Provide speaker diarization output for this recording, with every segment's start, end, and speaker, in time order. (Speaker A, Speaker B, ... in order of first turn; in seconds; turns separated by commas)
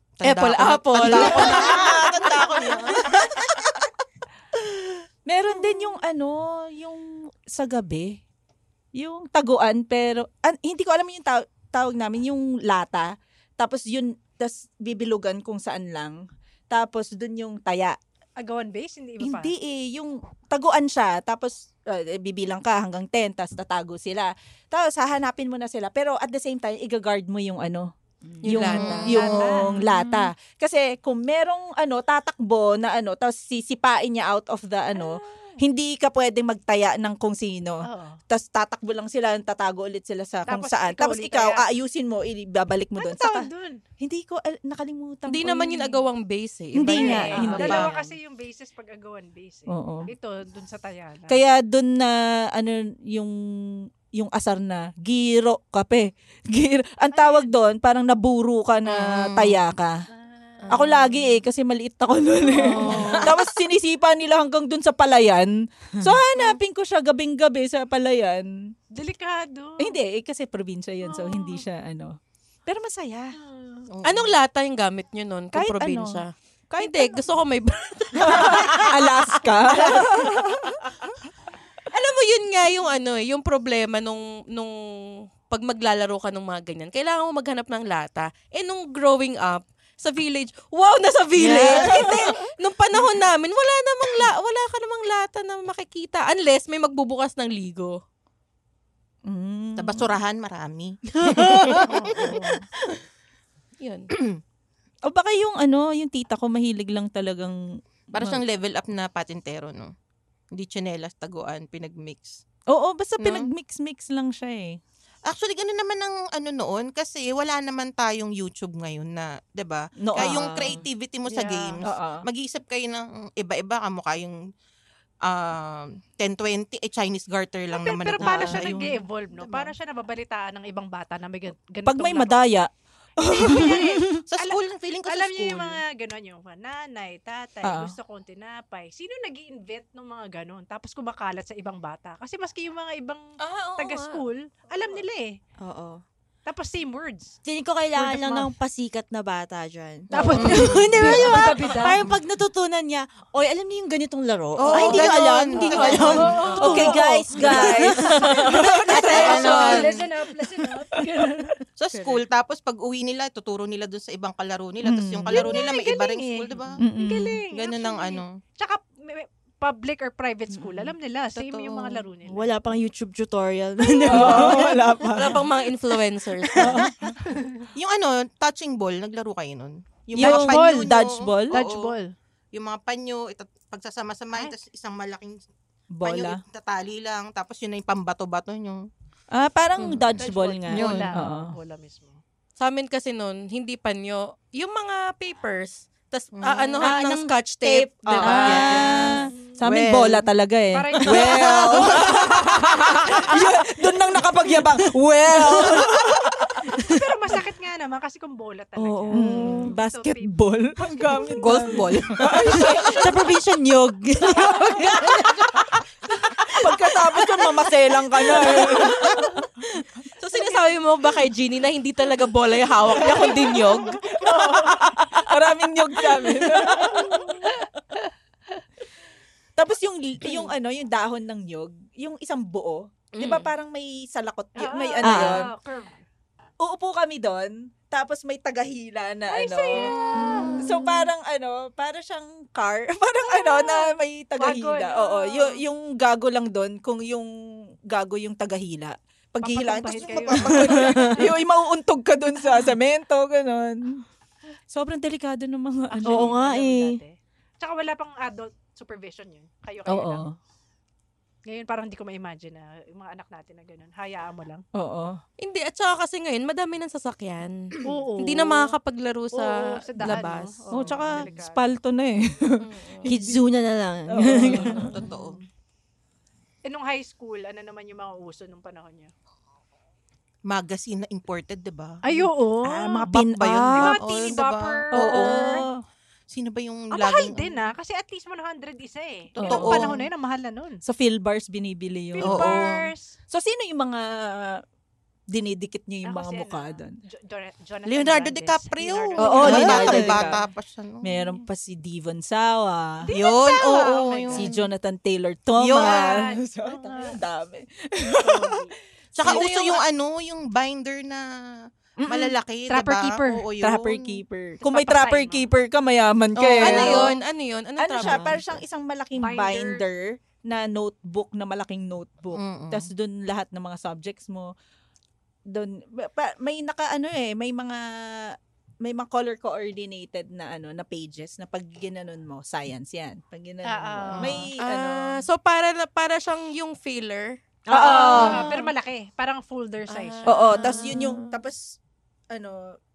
Speaker A: 0.2-3.6, Speaker B: 0.2-2.3, Speaker C: 1.0-3.4, Speaker C: 5.3-8.2, Speaker C: 8.9-18.0, Speaker D: 18.4-19.5, Speaker C: 19.2-46.0, Speaker B: 28.4-29.2, Speaker A: 28.6-29.6, Speaker D: 28.9-29.7, Speaker D: 37.9-38.2, Speaker D: 40.5-41.6, Speaker D: 43.0-43.8, Speaker B: 45.3-47.9, Speaker C: 46.8-47.9, Speaker D: 46.9-51.4, Speaker C: 49.7-50.1, Speaker C: 51.3-53.4, Speaker C: 54.1-60.0, Speaker D: 57.1-57.5, Speaker A: 58.9-59.5, Speaker D: 60.2-60.7, Speaker B: 60.7-60.9, Speaker C: 60.7-68.5, Speaker D: 62.6-63.2, Speaker A: 62.8-63.2, Speaker E: 62.9-63.3, Speaker D: 68.9-70.0, Speaker C: 69.8-73.4, Speaker D: 71.0-71.6, Speaker D: 73.4-73.9, Speaker A: 73.9-74.3, Speaker B: 74.0-80.1, Speaker C: 75.5-77.3, Speaker C: 78.2-80.8, Speaker B: 81.9-98.0, Speaker E: 91.4-92.2, Speaker C: 91.5-92.2, Speaker C: 99.3-100.1, Speaker A: 99.8-102.5, Speaker C: 101.5-101.8, Speaker D: 101.9-102.5, Speaker B: 103.8-104.1, Speaker C: 105.0-107.6, Speaker A: 108.1-109.9, Speaker C: 108.2-108.4, Speaker A: 110.5-112.4, Speaker C: 112.7-114.8, Speaker A: 113.2-113.5, Speaker A: 115.3-124.4, Speaker C: 120.0-120.8, Speaker D: 121.3-121.8, Speaker C: 121.8-122.2, Speaker A: 125.2-129.7, Speaker D: 127.7-132.4, Speaker C: 128.2-128.9, Speaker C: 131.9-134.2, Speaker D: 133.2-143.2, Speaker A: 134.3-135.8, Speaker C: 137.6-137.9, Speaker B: 143.4-144.2, Speaker D: 143.8-145.4, Speaker E: 145.6-146.0, Speaker D: 146.5-147.4, Speaker E: 147.4-159.7, Speaker D: 148.0-148.5, Speaker D: 150.1-152.0, Speaker A: 150.3-151.2, Speaker A: 154.6-156.4, Speaker D: 154.7-155.1, Speaker D: 155.6-157.9, Speaker C: 156.6-159.7, Speaker D: 158.5-161.3, Speaker A: 158.9-159.9, Speaker B: 159.1-159.9, Speaker C: 161.0-161.6, Speaker A: 161.8-166.8, Speaker C: 164.8-165.5, Speaker D: 165.3-172.5, Speaker C: 166.8-167.4, Speaker A: 167.5-168.4, Speaker A: 171.4-171.9, Speaker E: 172.2-175.4, Speaker C: 174.1-175.4, Speaker B: 175.1-176.8, Speaker C: 176.6-176.9, Speaker A: 177.8-181.9, Speaker C: 180.1-181.6, Speaker D: 180.2-180.9, Speaker D: 181.5-182.1, Speaker A: 182.5-185.4, Speaker C: 185.9-186.4, Speaker A: 186.0-188.9, Speaker C: 189.3-191.5, Speaker D: 190.2-192.2, Speaker A: 190.7-191.1, Speaker B: 192.6-198.9, Speaker A: 196.4-196.9, Speaker E: 196.8-199.1, Speaker C: 198.1-206.8, Speaker D: 199.1-199.6, Speaker A: 199.6-200.2, Speaker D: 200.7-202.0, Speaker A: 201.1-202.1, Speaker D: 206.8-210.3, Speaker E: 208.8-209.8, Speaker C: 209.2-212.9, Speaker E: 211.4-215.7, Speaker A: 211.4-212.4, Speaker C: 216.6-219.2, Speaker B: 220.2-224.1, Speaker C: 223.0-227.5, Speaker D: 223.0-224.8, Speaker B: 225.0-225.2, Speaker D: 226.7-227.5, Speaker C: 229.6-235.5, Speaker B: 233.2-233.5, Speaker D: 234.6-236.0, Speaker E: 235.0-235.5, Speaker C: 236.6-240.0, Speaker D: 239.3-240.6, Speaker C: 240.6-247.3, Speaker D: 243.3-245.6, Speaker C: 247.9-254.0, Speaker D: 249.4-251.4, Speaker A: 249.9-250.9, Speaker C: 254.7-256.4, Speaker D: 255.9-260.2, Speaker E: 256.1-257.0, Speaker C: 259.9-260.4, Speaker D: 261.5-264.6, Speaker C: 264.7-265.2, Speaker B: 265.4-270.6, Speaker D: 267.9-268.8, Speaker D: 269.3-271.7, Speaker C: 270.7-273.3, Speaker B: 272.6-273.1, Speaker E: 273.1-274.9, Speaker C: 274.1-275.0, Speaker D: 274.6-275.4, Speaker A: 274.7-275.4, Speaker D: 276.7-279.1, Speaker A: 280.5-282.0, Speaker D: 282.0-283.1, Speaker C: 282.7-284.3, Speaker A: 283.1-285.6, Speaker D: 283.7-285.6, Speaker C: 284.9-285.7, Speaker A: 286.3-287.6, Speaker D: 286.9-290.8, Speaker A: 289.3-290.1, Speaker C: 289.4-289.9, Speaker C: 290.8-292.8, Speaker D: 292.1-293.2, Speaker A: 292.2-292.8, Speaker C: 293.3-294.6, Speaker C: 295.3-297.0, Speaker D: 296.1-300.4, Speaker A: 297.9-301.3, Speaker C: 299.2-300.4, Speaker C: 301.0-303.0, Speaker D: 303.0-304.4, Speaker A: 303.1-304.6, Speaker C: 304.3-308.5, Speaker A: 305.6-306.3, Speaker D: 305.7-307.2, Speaker D: 308.2-308.7, Speaker A: 309.2-314.2, Speaker B: 309.2-309.8, Speaker C: 312.0-312.4, Speaker D: 312.7-313.4, Speaker C: 313.6-317.1, Speaker D: 314.6-315.5, Speaker A: 316.4-317.2, Speaker B: 316.6-318.4, Speaker C: 317.8-324.5, Speaker D: 319.2-319.8, Speaker A: 322.3-322.9, Speaker C: 325.5-328.3, Speaker C: 328.8-335.2, Speaker D: 333.7-334.4, Speaker A: 334.1-334.4, Speaker B: 334.6-337.4, Speaker C: 337.7-338.5, Speaker D: 337.7-340.4, Speaker E: 337.7-338.4, Speaker B: 339.9-341.1, Speaker C: 340.3-341.8, Speaker C: 342.3-342.8